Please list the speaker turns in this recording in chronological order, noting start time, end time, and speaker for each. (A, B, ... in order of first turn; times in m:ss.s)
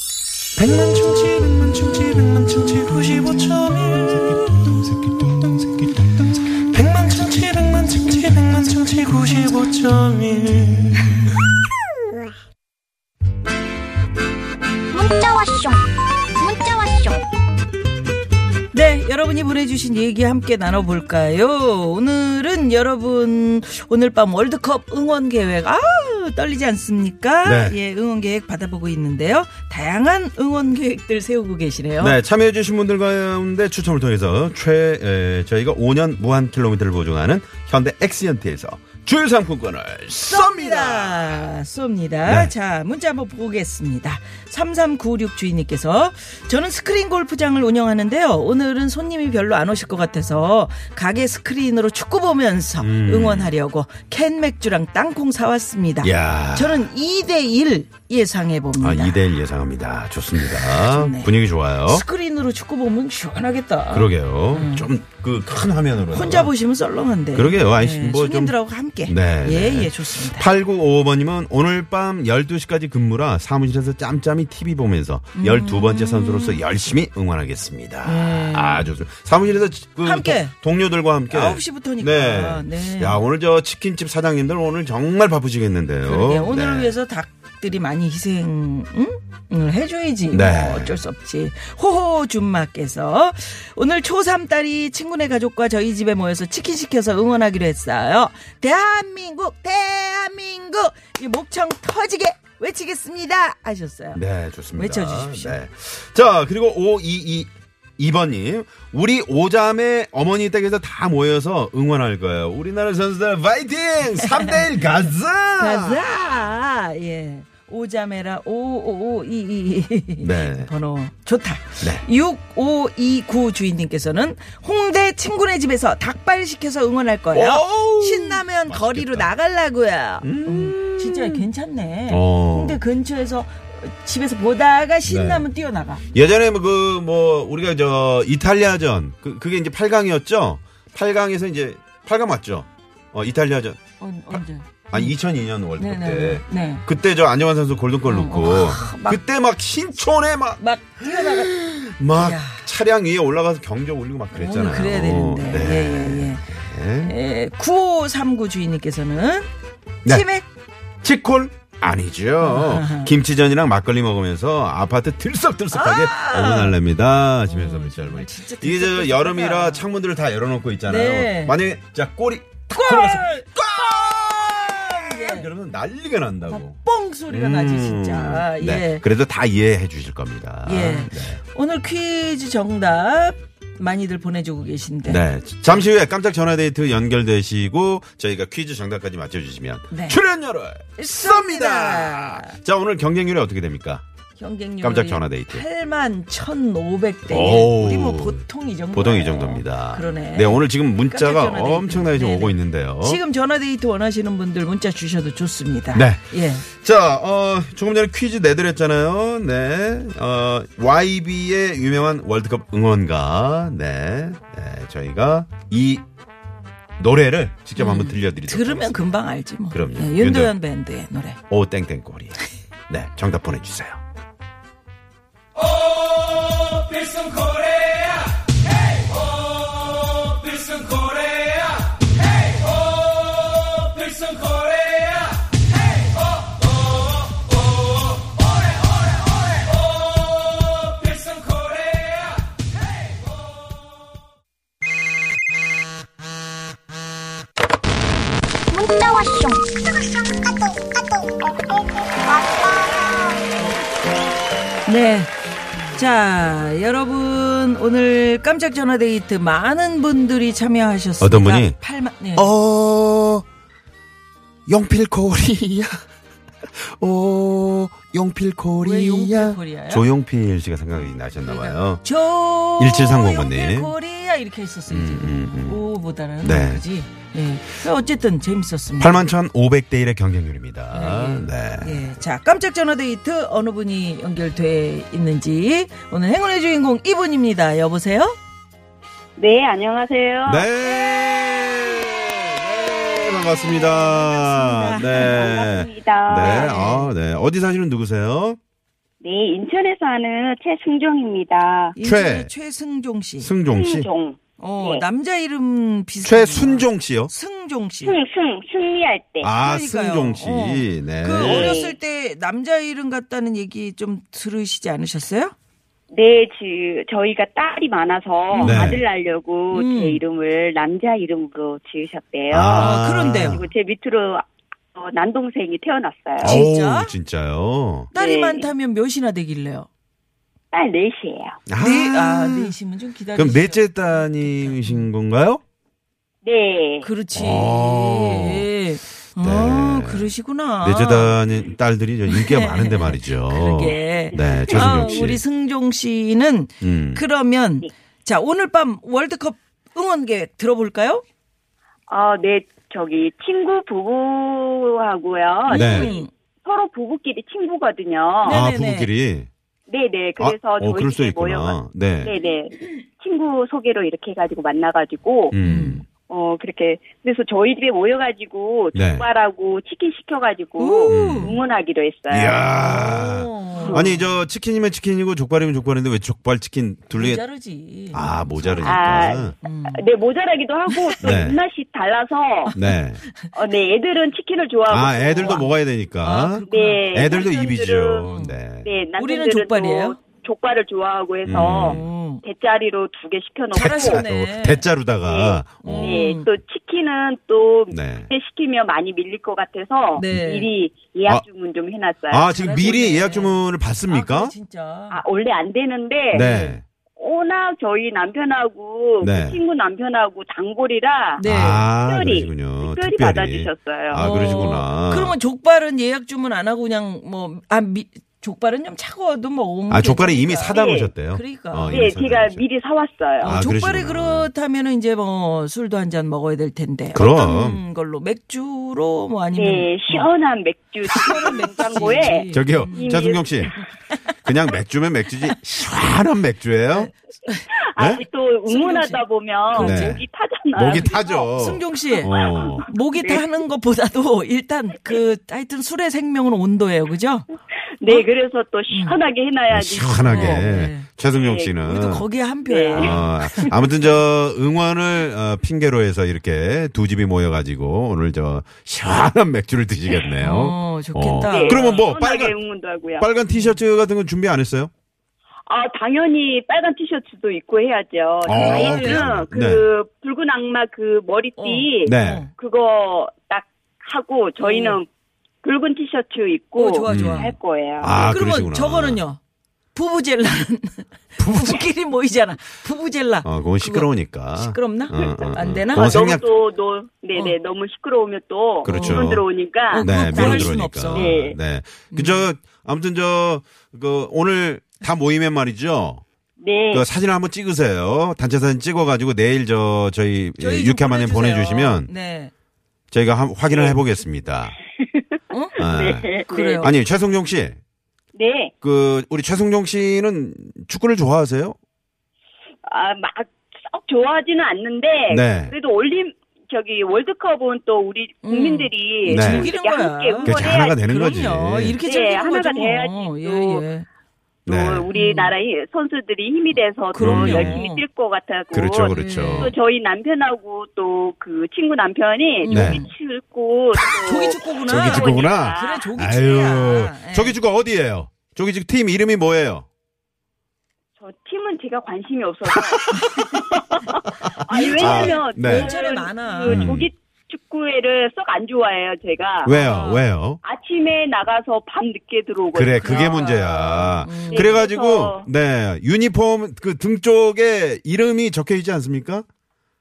0:02.5-0:03.0 A
0:06.8-0:10.9 A
0:14.9-0:17.2 B
0:18.7-0:32.2 C
0:27.4-0:27.8 D
0:32.0-0:41.5 D
0:40.2-0:59.2 C
0:42.2-0:42.5 D
0:52.8-0:53.5 D
0:56.0-0:56.9 D
0:58.8-1:02.0 D
1:00.4-1:01.3 C
1:01.8-1:04.9 C
1:03.9-1:06.5 D
1:06.1-1:10.5 C
1:07.3-1:26.9 D
1:15.3-1:16.6 C
1:18.0-1:18.9 C
1:20.0-1:20.5 C
1:21.3-1:23.2 C
1:26.0-1:44.2 C
1:30.3-1:31.0 D
1:44.1-1:56.2 D
1:44.8-1:45.6 C
1:54.2-1:54.7 C
1:55.6-2:16.0 C
2:00.2-2:00.7 D
2:07.3-2:09.3 D
2:10.2-2:11.5 D
2:12.1-2:12.8 D
2:15.0-2:15.5 D
2:16.1-2:23.8 D
2:24.0-2:25.2 C
2:24.3-2:37.2 D
2:25.8-2:26.8 C
2:28.1-2:29.2 C
2:30.6-2:31.5 C
2:32.1-2:32.7 C
2:34.3-2:39.5 C
2:40.0-2:40.4 C
2:41.0-2:56.8 D
2:42.4-2:43.1 C
2:45.7-2:46.8 C
2:47.5-2:49.8 C
2:50.8-2:51.6 C
2:52.7-2:53.5 C
2:54.8-2:55.5 C
2:56.5-2:59.0 C
2:57.3-3:01.4 D
3:00.6-3:05.2 C
3:05.0-3:14.0 D
3:09.9-3:10.2 C
3:11.0-3:12.6 C
3:14.4-3:26.7 C
3:14.8-3:15.6 D
3:17.3-3:23.2 D
3:25.9-3:26.2 D
3:26.7-3:36.0 D
3:37.0-3:39.2 D
3:37.8-3:41.4 C
3:39.7-3:40.6 D
3:41.5-3:44.0 D
4:08.7-4:11.5 B
4:12.3-4:13.4 B
4:14.9-4:15.3 C
4:15.9-4:22.5 C
4:21.2-4:21.8 D
4:22.4-4:23.4 D
4:24.7-4:26.0 D
4:26.7-4:32.0 D
4:28.8-4:30.1 C
4:31.4-4:39.2 C
4:32.8-4:33.9 D
4:34.9-4:35.9 D
4:36.4-4:36.8 D
4:39.0-4:42.2 D
4:40.9-4:48.4 C
4:49.4-4:50.7 E
4:50.4-4:58.6 D
4:53.5-4:55.7 C
4:55.0-4:56.8 E
4:56.3-4:57.1 C
4:59.2-5:02.0 E
5:02.0-5:03.5 C
5:02.0-5:02.5 D
5:03.4-5:04.1 D
5:03.7-5:05.0 E
5:04.6-5:08.2 C
5:06.2-5:07.3 D
5:08.0-5:09.5 E
5:09.4-5:11.8 D
5:09.6-5:15.5 C
5:11.4-5:12.0 E
5:16.1-5:26.6 E
5:18.5-5:19.0 C
5:18.6-5:19.0 D
5:19.7-5:20.2 C
5:22.5-5:23.7 D
5:22.8-5:23.7 C
5:26.4-5:28.1 D
5:26.4-5:27.1 C
5:28.1-5:29.9 C
5:28.1-5:28.7 E
5:30.7-5:31.6 E
5:31.7-5:32.8 D
5:31.8-5:35.1 C
5:33.3-5:35.6 D
5:36.4-5:37.1 E
5:37.0-5:41.4 C
5:37.3-5:38.7 D
5:39.4-5:40.3 D
5:40.8-5:45.4 D
5:42.3-5:51.2 C
5:44.3-5:45.2 E
5:46.8-5:47.2 D
5:52.1-5:58.6 E
5:55.7-5:56.3 C
5:55.7-5:56.1 D
5:58.4-5:59.1 C
5:58.4-5:59.5 D
5:59.9-6:05.6 E
6:00.4-6:02.3 D
6:05.5-6:06.0 D
6:05.6-6:06.0 C
6:06.3-6:12.6 E
6:08.9-6:09.3 D
6:10.8-6:11.6 C
6:11.1-6:11.6 D
6:12.3-6:17.4 D
6:12.8-6:14.3 C
6:13.8-6:14.2 E
6:17.1-6:20.0 C
6:18.1-6:19.6 D
6:18.8-6:22.7 E
6:21.2-6:21.6 D
6:22.7-6:23.5 C
6:22.8-6:23.2 D
6:23.5-6:25.7 E
6:24.9-6:28.9 D
6:25.4-6:25.7 C
6:26.2-6:27.1 C
6:26.7-6:34.2 E
6:28.3-6:28.6 C
6:29.2-6:30.2 C
6:31.4-6:32.1 D
6:31.8-6:32.4 C
6:33.7-6:36.2 D
6:33.8-6:34.9 C
6:35.2-6:42.5 E
6:35.8-6:36.5 C
6:37.9-6:38.3 D
6:40.1-6:40.7 C
6:42.3-6:44.5 D
6:42.5-6:45.2 C
6:45.1-6:46.5 E
6:46.3-6:46.8 D
6:46.4-6:46.8 C
6:47.2-6:54.2 E
6:49.2-6:49.6 D
6:51.4-6:51.9 C
6:51.4-6:55.4 D
6:54.2-7:00.8 C
6:59.9-7:02.6 D
7:00.6-7:01.1 E
7:01.3-7:02.1 C
7:01.9-7:03.6 E
7:03.4-7:04.5 D
7:03.4-7:10.3 C
7:07.1-7:07.8 D
7:09.6-7:13.6 E
7:11.1-7:14.3 C
7:11.1-7:13.8 D
7:14.4-7:17.1 D
7:16.9-7:17.7 C
7:17.7-7:21.5 E
7:18.0-7:18.2 D
7:18.7-7:20.2 C
7:19.8-7:20.2 D
7:20.8-7:22.9 D
7:20.9-7:27.4 C
7:22.2-7:23.4 E
7:28.0-7:30.7 E
7:28.9-7:29.2 C
7:29.7-7:32.3 D
7:30.2-7:31.1 C
7:31.3-7:31.7 E
7:31.8-7:33.7 C
7:32.7-7:33.2 E
7:33.0-7:42.6 D
7:40.4-7:42.1 C
7:41.5-7:43.3 E
7:43.2-7:44.9 D
7:43.5-7:43.8 C
7:45.7-7:55.1 E
7:48.4-7:49.9 D
7:48.5-7:49.4 C
7:51.6-7:52.5 C
7:52.0-7:52.5 D
7:54.6-7:55.0 C
7:55.6-7:58.3 E
7:56.8-7:57.5 C
7:57.1-7:59.2 D
7:58.2-7:59.4 C
7:59.9-8:06.4 C
8:01.4-8:01.9 D
8:03.4-8:06.4 D
8:06.0-8:11.6 E
8:08.8-8:16.2 D
8:08.8-8:09.2 C
8:09.9-8:11.3 C
8:12.1-8:12.5 C
8:16.6-8:17.1 E
8:16.9-8:22.1 D
8:20.6-8:22.5 C
8:23.1-8:24.8 D
8:23.7-8:24.1 E
8:25.5-8:25.8 C
8:25.8-8:26.9 E
8:25.8-8:27.8 D
8:26.5-8:26.9 C
8:28.4-8:28.7 E
8:28.8-8:31.8 D
8:32.9-8:41.0 E
8:35.3-8:35.7 D
8:38.4-8:44.1 C
8:39.2-8:39.7 D
8:40.4-8:42.0 D
8:42.1-8:43.8 E
8:44.6-8:56.1 E
8:44.7-8:45.1 D
8:45.1-8:45.5 C
8:47.1-8:48.0 C
8:47.2-8:47.8 D
8:48.7-8:49.7 D
8:49.1-8:49.8 C
8:52.6-8:53.1 C
8:52.7-8:53.0 D
8:54.2-8:57.6 C
8:54.8-8:59.9 D
9:01.2-9:15.5 E
9:03.2-9:05.9 D
9:04.7-9:06.9 C
9:06.6-9:07.1 D
9:09.6-9:10.6 D
9:09.7-9:10.2 C
9:12.7-9:19.4 D
9:13.0-9:14.8 C